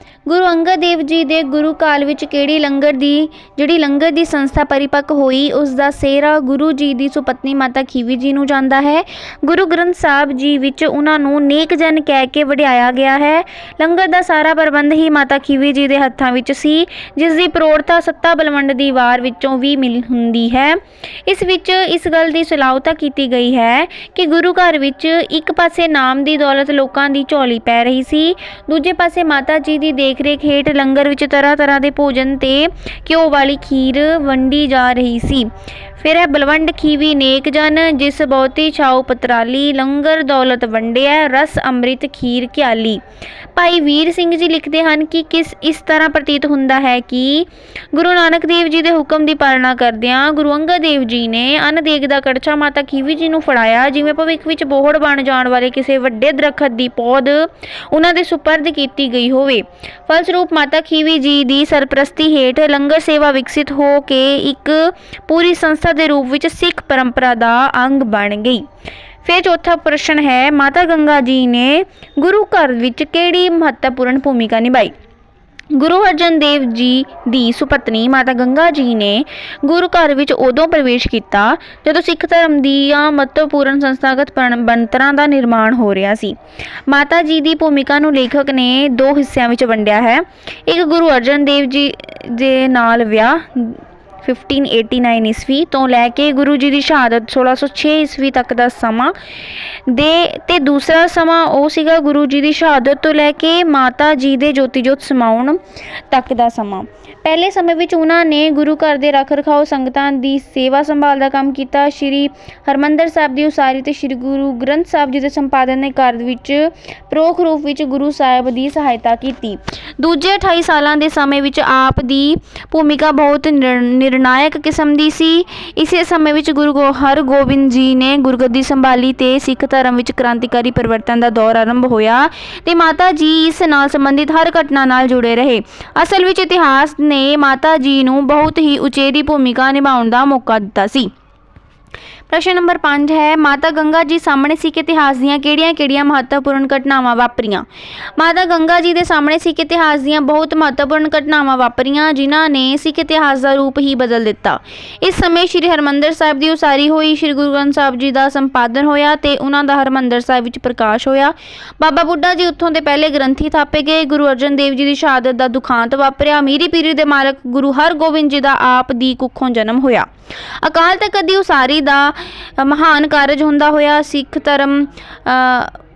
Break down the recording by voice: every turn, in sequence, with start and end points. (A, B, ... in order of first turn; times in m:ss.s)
0:00.2-0:43.0 A
0:43.6-1:08.6 A
1:09.2-1:14.9 A
1:15.7-1:26.4 A
1:26.9-1:39.1 A
1:39.9-2:21.1 A
2:22.3-2:27.7 A
2:28.2-2:50.1 A
2:50.6-2:55.8 A